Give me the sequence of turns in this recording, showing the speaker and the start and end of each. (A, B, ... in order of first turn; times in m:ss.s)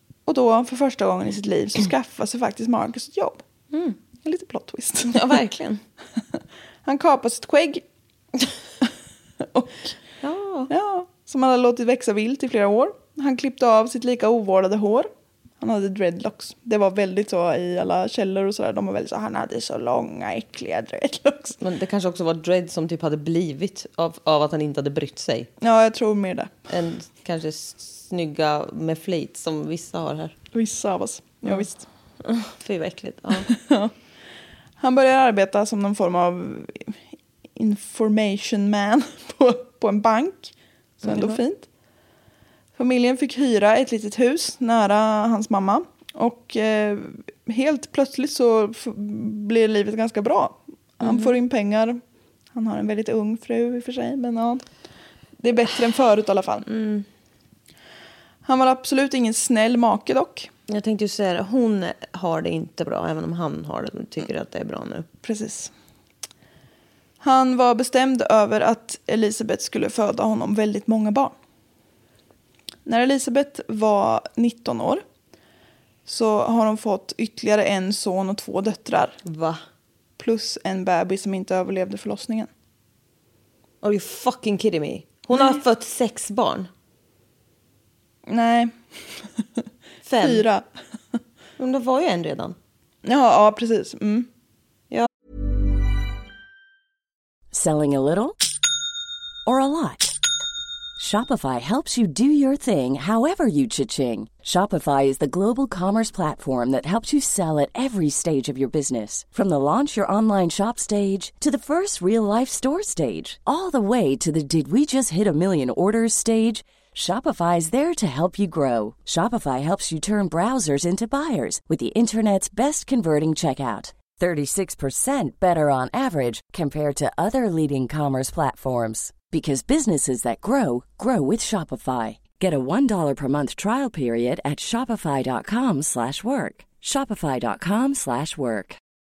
0:00.3-0:03.4 A
0:03.7-0:04.0 B
0:04.2-0:05.4 A
0:05.1-0:05.8 B
0:06.2-0:07.8 A
0:09.4-0:09.9 A
0:10.2-0:10.7 B
0:10.7-0:15.1 A
0:15.6-0:21.6 A
0:21.6-0:25.5 B
0:25.6-0:26.7 A
0:26.7-0:30.4 B
0:30.5-0:31.8 A
0:32.2-0:33.5 B
0:33.5-0:33.9 A
0:34.8-0:37.0 A
0:37.6-0:41.7 A
0:41.0-0:41.4 B
0:42.8-0:52.0 A
0:51.0-0:51.4 B
0:52.5-0:54.6 A
0:55.4-0:56.7 A
0:56.7-0:57.0 B
0:58.4-1:00.5 A
1:00.7-1:05.1 B
1:05.2-1:05.7 A
1:07.2-1:11.4 A
1:12.8-1:15.0 A
1:16.1-1:19.2 A
1:19.2-1:19.6 B
1:20.2-1:22.5 A
1:23.8-1:26.7 B
1:25.4-1:25.6 A
1:28.3-1:28.8 A
1:30.0-1:30.4 B
1:30.2-1:30.7 A
1:31.6-1:32.6 B
1:33.0-1:34.3 A
1:37.5-1:38.4 C
1:39.5-1:40.2 C
1:41.0-2:18.8 C